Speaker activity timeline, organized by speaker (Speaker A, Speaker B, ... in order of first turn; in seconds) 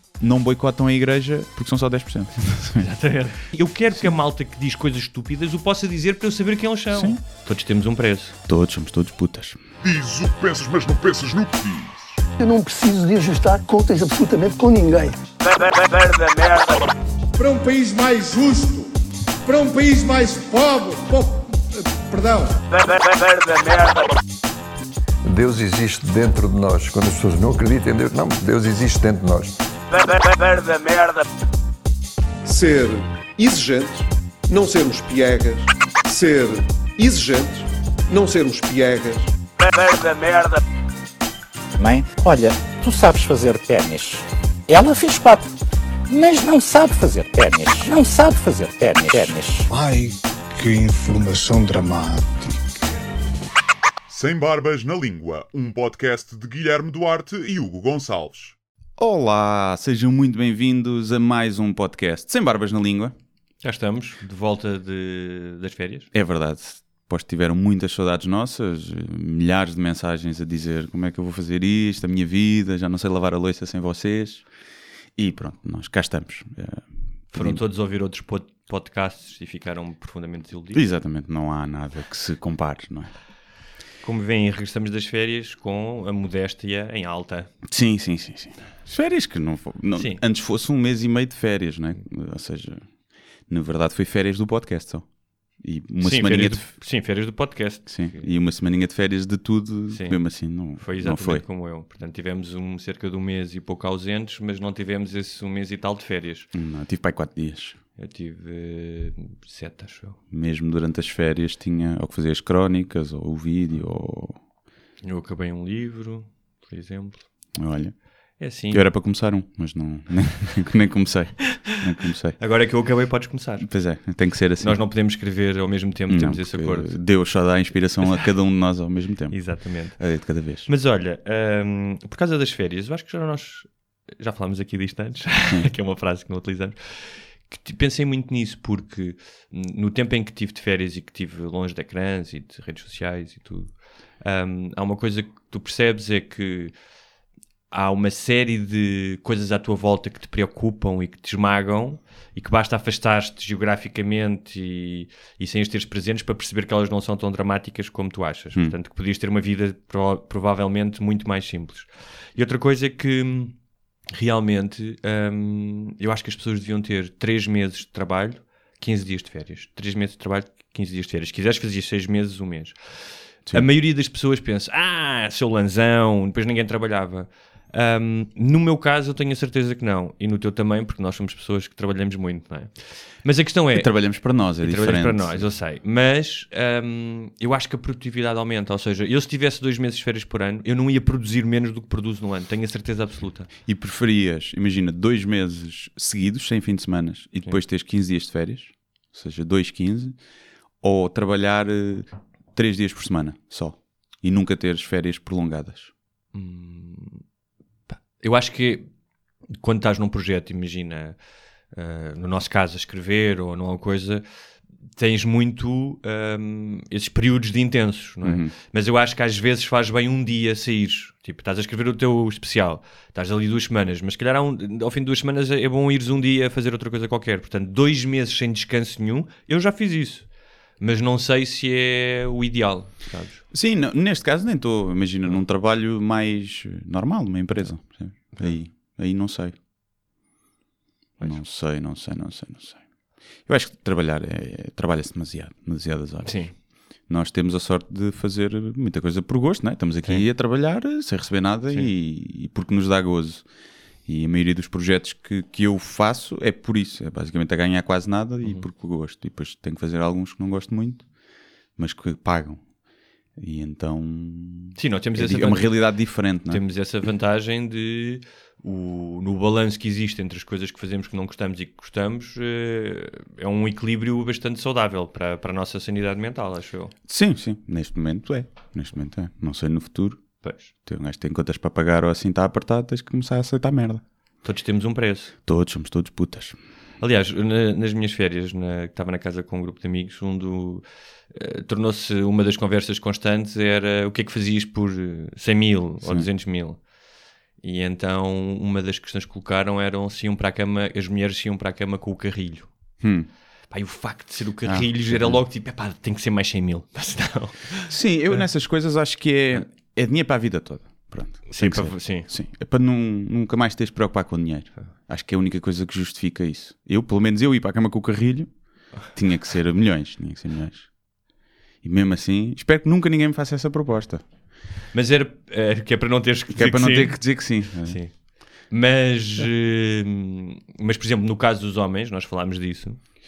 Speaker A: 0.2-2.9, 6.9-7.2, 8.5-9.6, 59.0-63.1, 66.1-74.5, 75.2-77.6, 80.7-83.1, 87.7-92.9, 93.5-96.7, 97.9-101.5, 106.5-107.8, 110.3-114.4, 117.6-122.4, 123.6-124.8, 126.1-129.4, 130.0-130.7, 183.7-185.5, 193.7-200.2, 200.8-205.9, 218.2-218.5, 233.5-239.6, 241.2-242.8, 243.5-246.5, 247.1-253.4, 254.1-261.1, 261.8-262.6, 263.4-266.6, 277.1-280.2, 280.8-284.0, 285.5-286.6, 303.0-303.3, 304.7-305.4, 307.9-320.9, 321.8-324.2, 326.5-328.0
Speaker B: 2.8-8.3, 63.6-66.1, 77.3-80.8, 84.0-87.5, 90.0-90.2, 96.0-98.3, 99.9-100.2, 100.7-106.5, 108.0-110.2, 115.0-117.2, 118.4-118.8, 122.4-123.7, 124.6-127.0, 129.3-130.0, 130.7-146.7, 147.7-163.6, 164.1-193.5, 206.3-207.2, 207.9-208.9, 209.5-211.2, 211.7-214.2, 215.0-233.4, 246.2-246.5, 264.8-265.9, 266.5-276.9, 280.4-280.7, 284.4-285.3, 287.0-296.8, 297.6-302.7, 303.7-308.4, 311.5-312.3, 324.9-327.2, 327.8-328.1, 328.7-333.0
Speaker C: 9.8-12.0, 54.1-58.5
Speaker D: 12.4-16.8, 22.8-24.1, 30.0-31.2, 39.6-40.6
Speaker E: 17.4-18.9, 19.4-22.6, 49.7-52.5
Speaker F: 25.2-29.6
Speaker G: 32.5-39.3
Speaker H: 41.8-45.5, 46.1-49.7